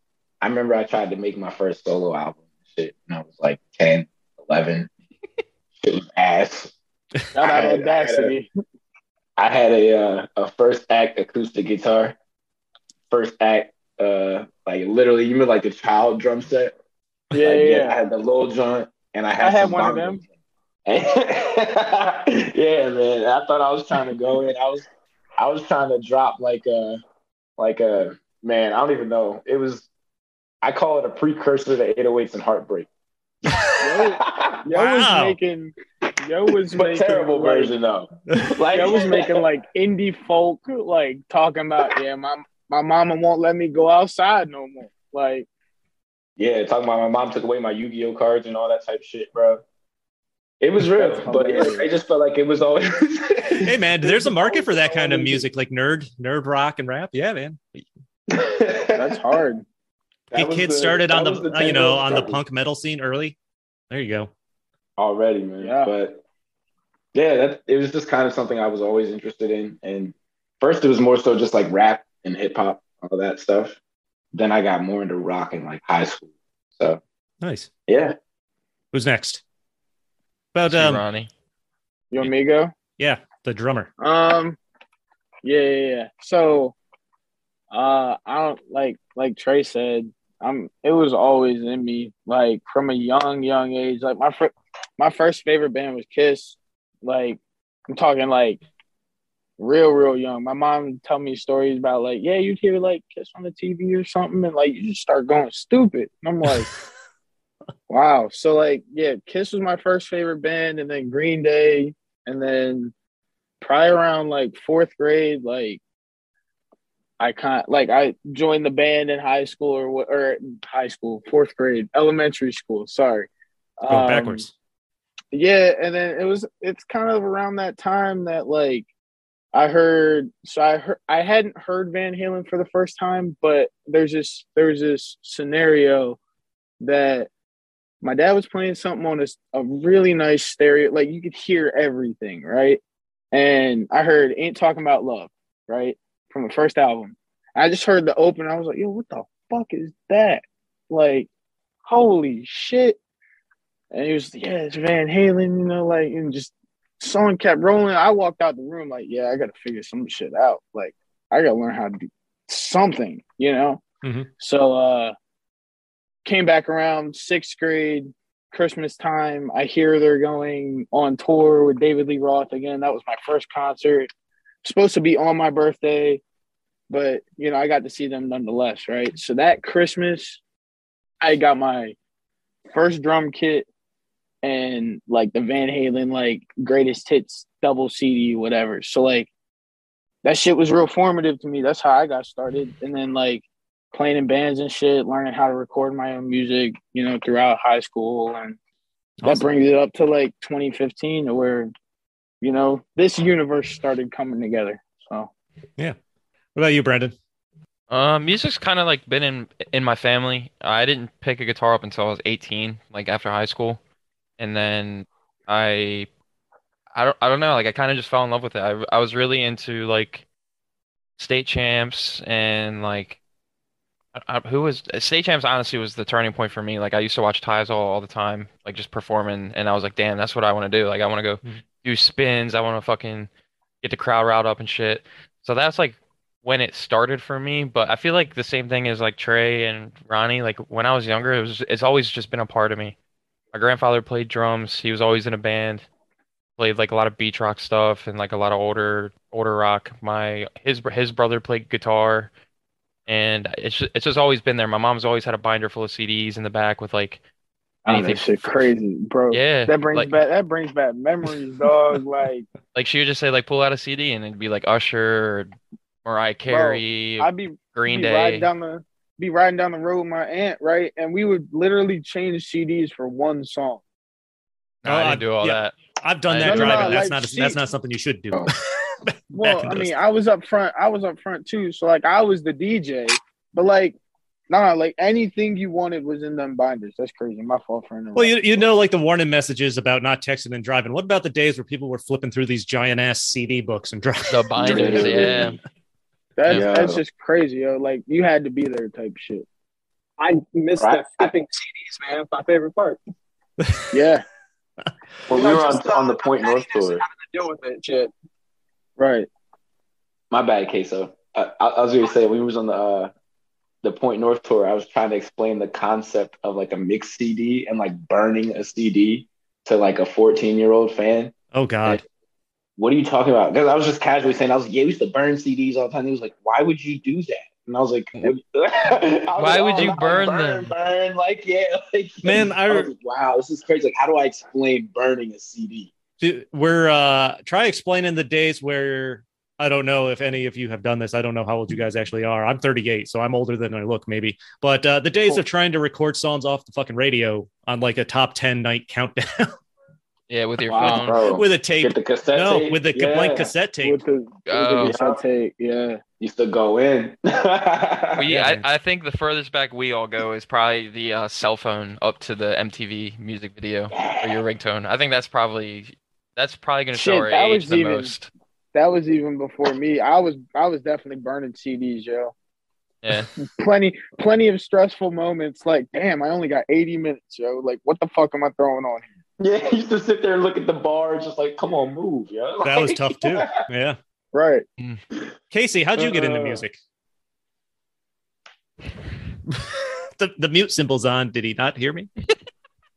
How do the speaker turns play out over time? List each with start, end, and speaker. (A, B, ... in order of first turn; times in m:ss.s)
0:00.4-0:04.9 A
0:05.8-0:06.7 A
0:07.3-0:08.5 B
0:07.4-0:08.3 A
0:09.4-0:12.1 A
0:13.1-0:16.7 A
0:17.3-0:18.0 B
0:17.4-0:20.3 A
0:19.4-0:20.2 B
0:20.8-0:24.8 A
0:25.4-0:27.0 A
0:27.6-0:29.9 A
0:30.6-0:32.9 A
0:33.8-0:37.7 B
0:33.9-0:34.6 A
0:34.7-0:35.4 C
0:36.7-0:39.4 A
0:38.7-0:45.5 B
0:46.4-0:49.6 A
0:50.6-0:54.3 A
0:50.9-0:51.9 B
0:53.6-0:57.8 C
0:54.4-0:55.4 B
0:58.3-0:59.3 A
0:58.9-0:59.6 B
1:00.3-1:02.4 A
1:00.3-1:03.4 C
1:03.9-1:04.3 C
1:05.0-1:06.2 A
1:05.6-1:05.9 B
1:07.1-1:13.8 A
1:14.3-1:17.0 A
1:17.4-1:17.7 C
1:17.9-1:18.1 A
1:18.9-1:19.4 C
1:20.5-1:21.0 C
1:20.7-1:21.3 D
1:22.1-1:22.7 B
1:23.0-1:23.9 C
1:24.0-1:24.6 B
1:25.4-1:26.8 B
1:27.7-1:38.6 B
1:39.6-1:46.7 B
1:47.9-1:52.9 B
1:53.6-1:55.8 B
1:57.2-2:03.3 B
2:03.8-2:04.5 B
2:03.9-2:04.5 C
2:05.3-2:08.8 B
2:09.5-2:16.2 B
2:16.8-2:17.3 B
2:18.0-2:22.8 B
2:23.3-2:31.3 B
2:31.8-2:33.0 B
2:33.9-2:43.8 B
2:44.0-2:44.3 C
2:44.4-2:45.1 B
2:46.2-2:54.1 B
2:54.6-2:56.2 B
2:56.9-3:00.4 B
3:01.2-3:02.0 B
3:02.7-3:03.7 B
3:04.4-3:09.3 B
3:10.2-3:18.6 B
3:19.2-3:19.4 C
3:19.2-3:21.7 B
3:22.4-3:25.3 B
3:26.5-3:27.1 C
3:27.9-3:33.8 D
3:34.4-3:36.1 D
3:36.9-3:40.2 D
3:41.2-3:43.2 D
3:44.2-3:53.3 D
3:53.8-4:02.9 D
4:03.5-4:05.8 D
4:06.6-4:12.3 D
4:13.1-4:17.2 D
4:17.8-4:22.5 B
4:17.9-4:18.4 D
4:19.3-4:20.1 D
4:22.7-4:25.5 D
4:26.0-4:28.5 D
4:26.5-4:33.8 B
4:34.8-4:35.7 D
4:34.8-4:39.9 C
4:36.3-4:37.0 D
4:36.4-4:37.6 B
4:39.3-4:44.0 B
4:44.5-4:48.4 B
4:48.2-4:55.6 C
4:54.3-4:55.6 D
4:54.6-4:55.5 A
4:56.4-4:59.4 B
4:56.5-4:57.0 A
5:00.2-5:03.0 E
5:00.8-5:01.3 A
5:03.6-5:03.9 C
5:03.9-5:04.2 B
5:05.3-5:07.0 A
5:05.3-5:08.1 E
5:09.0-5:09.3 B
5:10.3-5:13.1 A
5:13.8-5:21.3 A
5:21.5-5:22.0 C
5:22.8-5:35.9 A
5:29.4-5:30.7 D
5:32.2-5:32.9 C
5:36.2-5:49.5 C
5:50.3-5:51.2 D
5:50.6-5:53.5 A
5:50.8-5:54.0 C
5:53.8-5:56.0 B
5:54.5-5:54.9 D
5:54.8-5:55.2 A
5:56.2-5:58.3 A
5:58.2-6:08.3 D
5:58.3-5:58.6 C
6:03.9-6:04.4 A
6:06.9-6:08.1 B
6:08.7-6:12.3 B
6:13.0-6:13.3 D
6:13.5-6:19.1 B
6:19.4-6:23.6 A
6:22.6-6:24.0 C
6:24.3-6:24.6 B
6:25.5-6:26.8 C
6:26.0-6:26.6 A
6:29.5-6:32.1 C